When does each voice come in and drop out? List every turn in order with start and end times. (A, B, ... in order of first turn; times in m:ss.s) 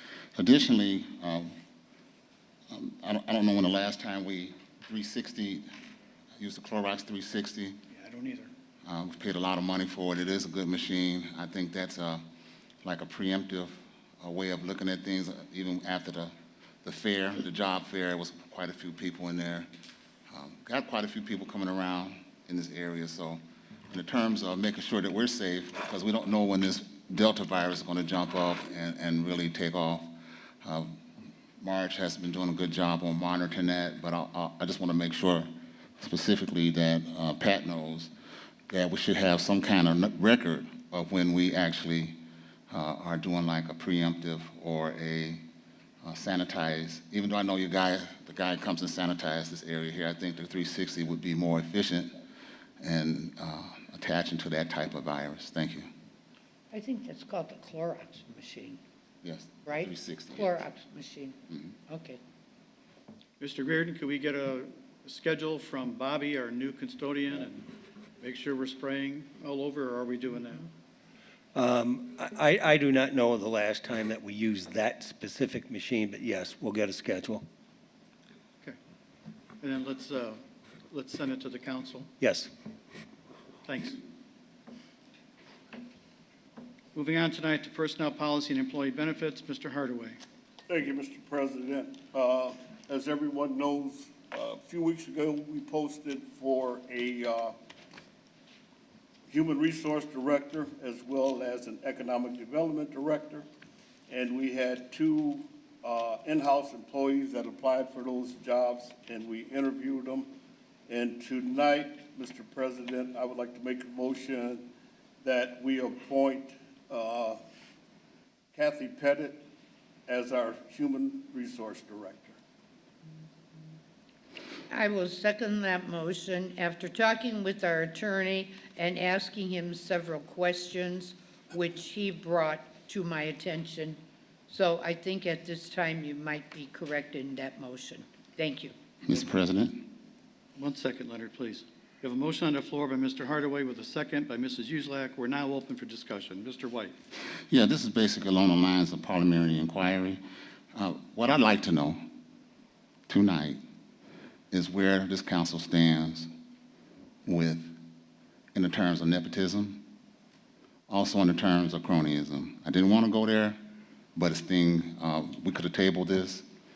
0:00.4-0:01.5 A
0:02.7-0:05.6 A
0:06.4-0:07.8 A
0:07.9-0:08.5 B
0:08.8-0:12.2 A
0:12.8-0:19.7 A
0:20.3-0:30.1 A
0:30.6-0:30.9 A
0:31.6-0:35.5 A
0:36.0-0:38.1 A
0:38.7-0:42.2 A
0:42.7-0:45.4 A
0:46.0-0:52.1 A
0:52.8-0:55.9 A
0:56.7-0:58.8 C
0:59.2-1:00.6 A
0:59.7-1:02.2 C
1:03.4-1:07.7 B
1:08.2-1:10.7 B
1:11.6-1:17.4 D
1:19.6-1:20.4 B
1:20.9-1:22.1 B
1:22.2-1:22.5 D
1:23.6-1:24.0 B
1:27.0-1:30.2 B
1:30.7-1:37.6 E
1:39.3-1:43.5 E
1:44.1-1:50.3 E
1:50.9-1:54.6 E
1:55.2-1:57.4 E
1:58.6-1:59.4 E
2:00.1-2:02.4 E
2:04.7-2:18.7 C
2:19.1-2:19.9 A
2:20.6-2:26.9 B
2:27.5-2:30.2 A
2:30.7-2:32.0 A
2:33.1-2:33.6 A
2:34.5-2:36.3 A
2:37.3-2:37.7 A
2:38.6-2:39.8 A
2:40.9-2:43.6 A
2:44.2-2:46.4 A